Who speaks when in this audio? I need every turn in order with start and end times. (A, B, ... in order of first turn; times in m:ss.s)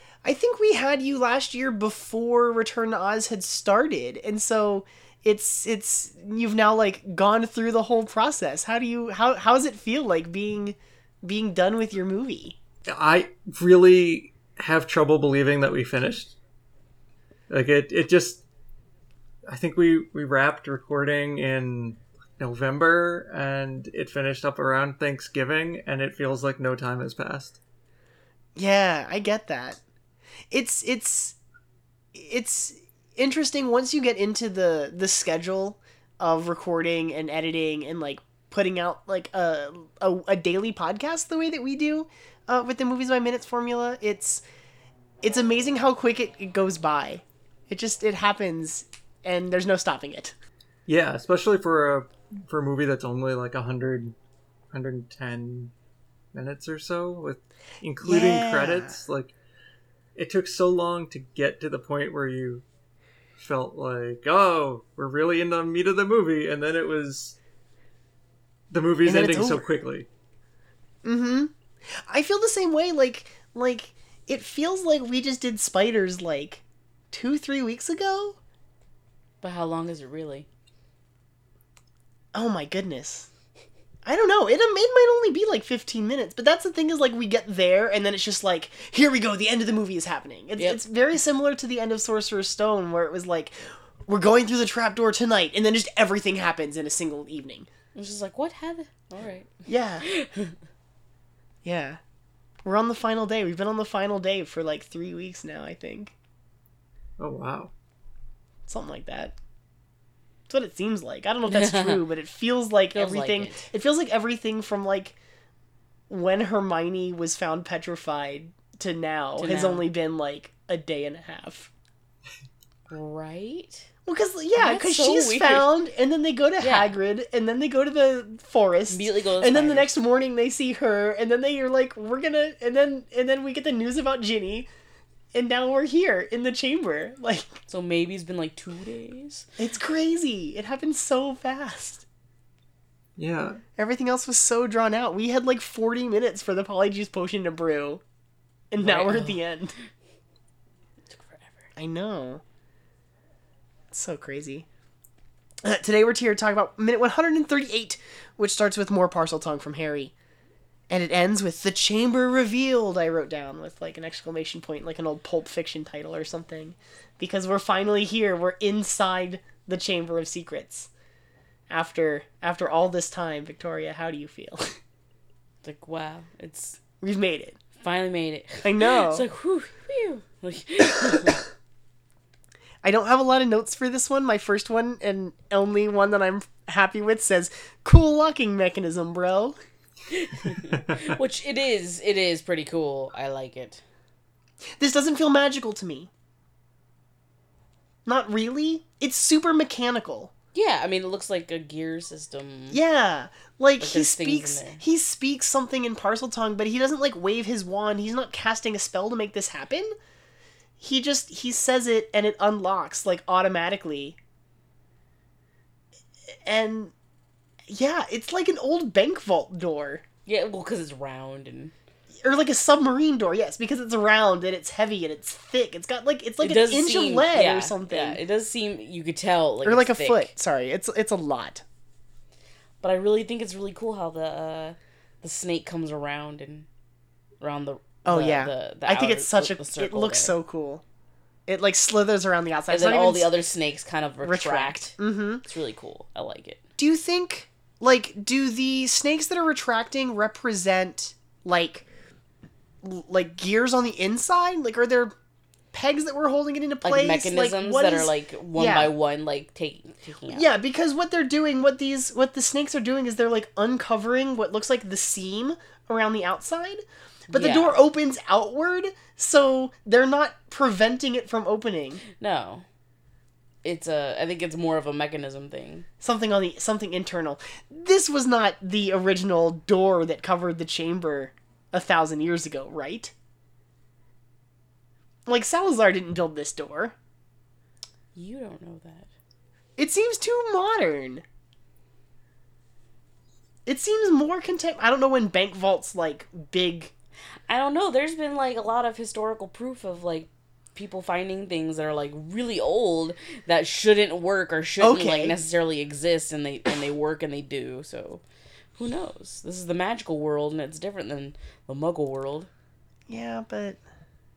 0:00.2-0:12.6 A
0:12.9-0:16.4 B
0:17.5-0:18.4 B
0:19.5-0:27.6 B
0:28.6-0:29.8 A
0:30.5-0:31.4 A
0:32.1-0:44.4 A
0:45.2-0:50.3 A
0:50.9-0:54.2 B
0:54.7-0:55.7 B
0:56.3-0:59.3 B
0:58.0-0:59.0 A
1:00.1-1:02.6 B
1:03.4-1:07.4 B
1:08.7-1:10.1 B
1:09.0-1:09.7 A
1:11.0-1:18.4 A
1:19.4-1:20.4 C
1:22.3-1:23.3 A
1:24.0-1:37.7 A
1:37.9-1:40.5 C
1:39.6-1:40.0 A
1:41.6-1:42.0 A
1:42.6-1:46.1 A
1:47.2-1:47.7 B
1:48.7-1:49.3 A
1:50.5-1:55.2 A
1:51.5-1:52.0 C
1:52.9-1:53.6 C
1:56.1-2:01.7 A
1:59.4-1:59.9 C
2:02.9-2:03.9 C
2:04.0-2:14.7 A
2:04.6-2:05.7 C
2:06.6-2:06.9 C
2:08.9-2:09.9 C
2:15.3-2:17.6 A
2:17.7-2:19.5 C
2:19.6-2:22.0 A
2:23.2-2:23.6 B
2:23.8-2:28.0 A
2:28.7-2:29.7 A
2:28.8-2:29.4 C
2:31.1-2:31.7 C
2:31.8-2:32.4 A
2:33.9-2:34.7 A
2:35.6-2:40.1 A
2:40.9-2:50.9 A
2:51.7-2:54.8 A
2:55.6-2:56.8 C
2:57.0-2:57.6 A
2:57.8-3:01.4 C
2:58.6-2:59.2 A
3:02.8-3:09.6 A
3:10.1-3:13.8 C
3:10.7-3:11.2 B
3:14.8-3:16.1 A
3:18.0-3:20.3 A
3:20.5-3:22.8 C
3:22.7-3:29.9 A
3:23.8-3:24.8 C
3:30.8-3:34.2 A
3:36.4-3:36.9 A
3:37.7-3:40.0 A
3:40.2-3:41.7 C
3:42.2-3:48.2 A
3:46.4-3:50.3 C
3:49.6-3:51.6 A
3:52.8-3:56.7 C
3:57.4-4:00.3 C
3:58.0-4:00.8 A
4:01.5-4:03.3 A
4:02.7-4:06.6 C
4:04.2-4:05.4 A
4:06.8-4:11.9 A
4:12.8-4:15.1 A
4:15.7-4:18.9 A
4:16.8-4:20.5 C
4:20.3-4:32.0 A
4:27.3-4:27.8 C
4:32.1-4:32.6 C
4:33.6-4:35.8 C
4:36.0-4:43.1 A
4:45.3-4:47.0 A
4:48.1-4:49.1 C
4:49.8-4:51.2 A
4:53.6-4:56.9 A
4:57.5-5:08.2 C
5:04.8-5:05.3 A
5:08.8-5:12.5 C
5:13.1-5:13.8 A